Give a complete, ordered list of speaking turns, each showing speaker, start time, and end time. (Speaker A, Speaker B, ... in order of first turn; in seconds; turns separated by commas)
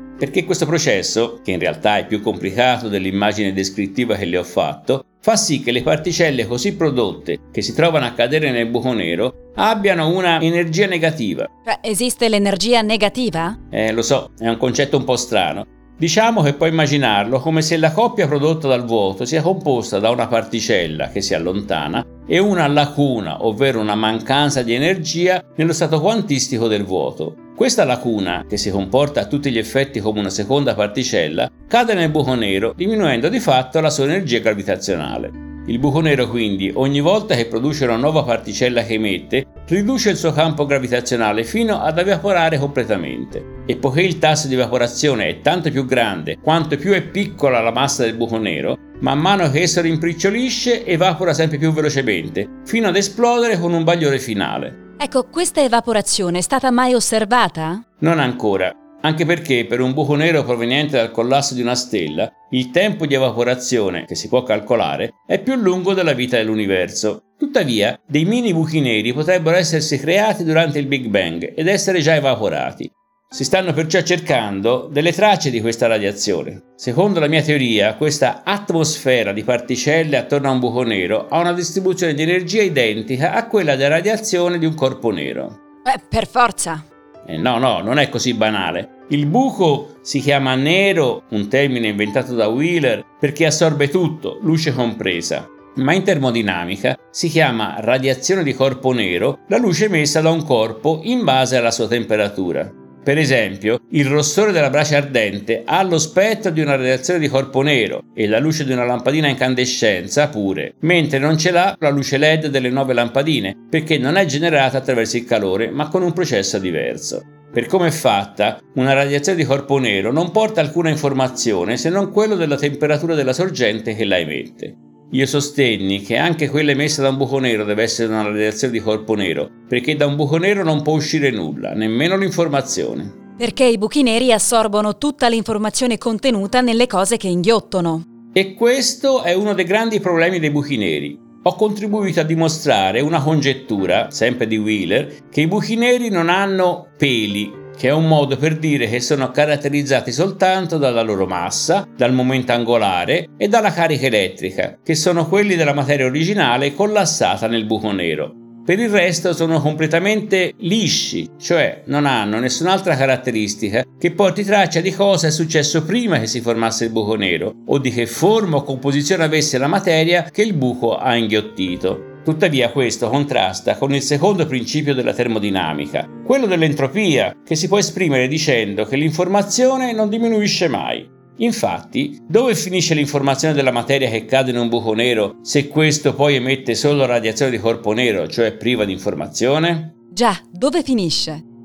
Speaker A: 0.2-11.5, Speaker B: 11.7-13.6, Speaker A: 13.7-54.8, Speaker B: 55.0-57.8, Speaker A: 58.0-85.6, Speaker B: 85.8-86.8, Speaker A: 87.2-133.1, Speaker B: 133.4-138.1, Speaker A: 138.3-189.9, Speaker B: 190.1-191.4